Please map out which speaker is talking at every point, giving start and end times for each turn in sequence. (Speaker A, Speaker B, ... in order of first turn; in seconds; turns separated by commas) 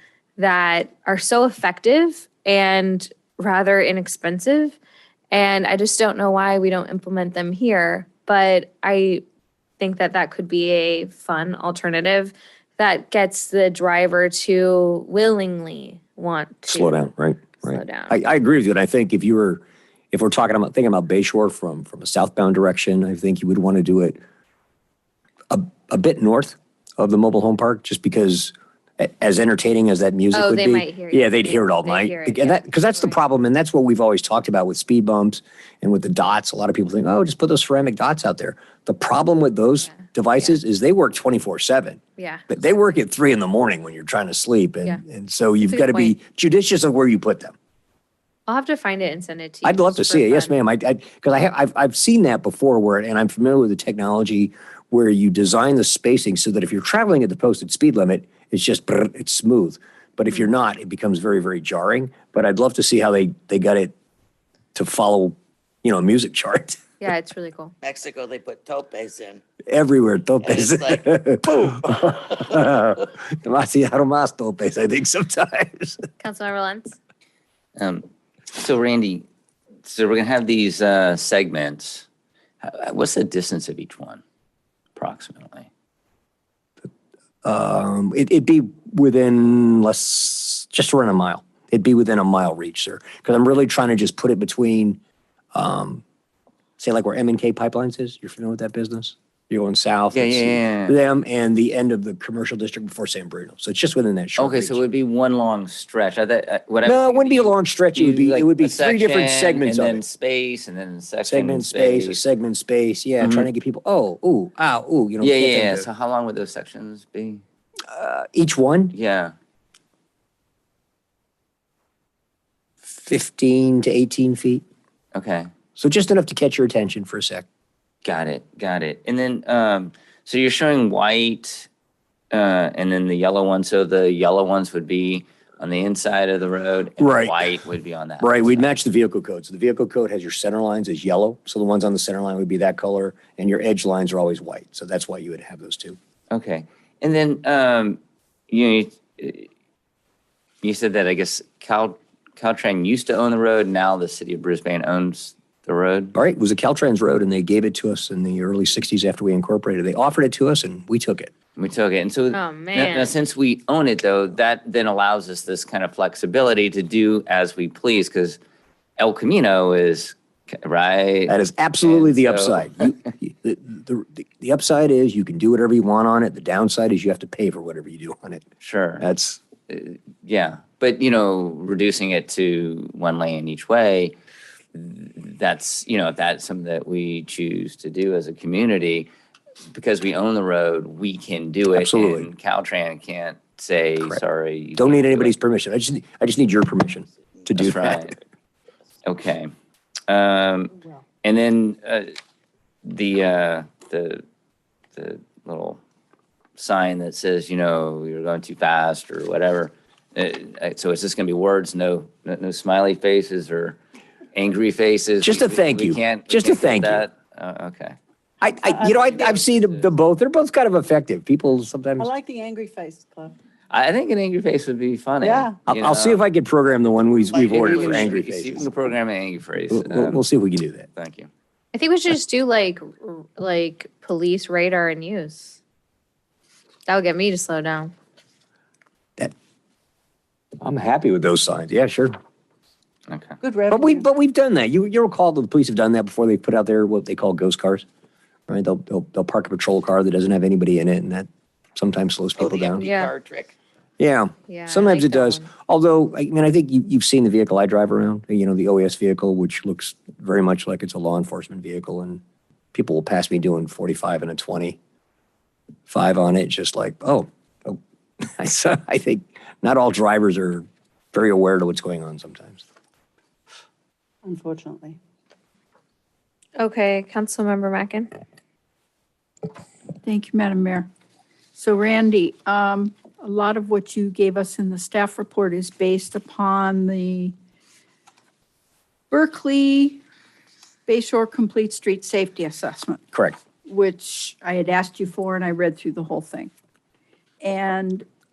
Speaker A: 0.4-4.8, Speaker A: 5.3-9.2, Speaker A: 9.8-17.1, Speaker B: 16.7-24.2, Speaker A: 17.6-18.1, Speaker B: 25.5-47.5, Speaker A: 30.3-33.2, Speaker A: 39.9-40.5, Speaker A: 42.2-42.5, Speaker A: 45.6-46.1, Speaker A: 48.5-50.5, Speaker B: 49.6-63.9, Speaker B: 64.7-66.8, Speaker A: 67.0-67.7, Speaker C: 67.8-69.4, Speaker B: 69.7-76.0, Speaker C: 70.4-70.9, Speaker A: 76.2-77.0, Speaker D: 77.8-79.2, Speaker D: 79.8-82.0, Speaker D: 82.6-84.2, Speaker D: 85.0-85.7, Speaker B: 87.4-95.0, Speaker B: 95.5-96.0, Speaker B: 96.8-104.8, Speaker D: 100.1-101.0, Speaker D: 104.4-112.2, Speaker B: 106.8-110.0, Speaker B: 111.2-115.9, Speaker D: 113.2-113.5, Speaker D: 115.2-117.4, Speaker B: 117.9-118.9, Speaker D: 118.9-119.3, Speaker B: 122.8-124.6, Speaker D: 125.1-125.5, Speaker B: 125.8-127.4, Speaker D: 128.0-131.7, Speaker D: 132.3-138.7, Speaker B: 137.0-137.5, Speaker B: 138.2-146.0, Speaker D: 146.3-149.5, Speaker D: 150.6-156.1, Speaker B: 156.1-161.3, Speaker D: 161.6-168.4, Speaker A: 162.3-163.1, Speaker D: 169.0-172.9, Speaker B: 171.3-178.4, Speaker D: 178.6-179.0, Speaker B: 179.0-179.4, Speaker D: 179.7-184.2, Speaker D: 184.7-189.1, Speaker D: 189.7-195.3, Speaker B: 191.7-192.3, Speaker B: 194.8-198.1, Speaker D: 197.5-198.2, Speaker D: 199.0-199.5, Speaker D: 200.1-200.7, Speaker D: 201.2-202.1, Speaker D: 202.8-204.2, Speaker D: 204.9-205.8, Speaker D: 206.6-213.8, Speaker D: 214.3-217.9, Speaker B: 215.2-217.0, Speaker B: 218.4-222.1, Speaker E: 218.7-219.4, Speaker D: 218.9-219.8, Speaker E: 222.0-223.3, Speaker D: 223.7-226.2, Speaker E: 225.2-225.6, Speaker B: 225.7-228.7, Speaker D: 227.4-230.2, Speaker C: 227.5-227.8, Speaker B: 229.7-230.9, Speaker D: 230.9-231.3, Speaker A: 231.7-235.6, Speaker A: 236.9-237.9, Speaker B: 240.6-242.1, Speaker D: 243.1-243.4, Speaker E: 243.4-244.0, Speaker B: 243.7-247.8, Speaker B: 248.5-252.9, Speaker C: 252.4-253.5, Speaker A: 252.8-253.1, Speaker B: 254.0-262.2, Speaker A: 254.5-255.5, Speaker B: 262.7-264.8, Speaker B: 265.9-267.8, Speaker B: 268.4-272.6, Speaker E: 274.2-275.0, Speaker A: 276.6-278.1, Speaker F: 280.0-280.9, Speaker F: 281.5-287.3, Speaker F: 289.1-290.0, Speaker F: 290.9-293.0, Speaker B: 293.1-293.4, Speaker F: 293.6-296.5, Speaker F: 297.4-298.1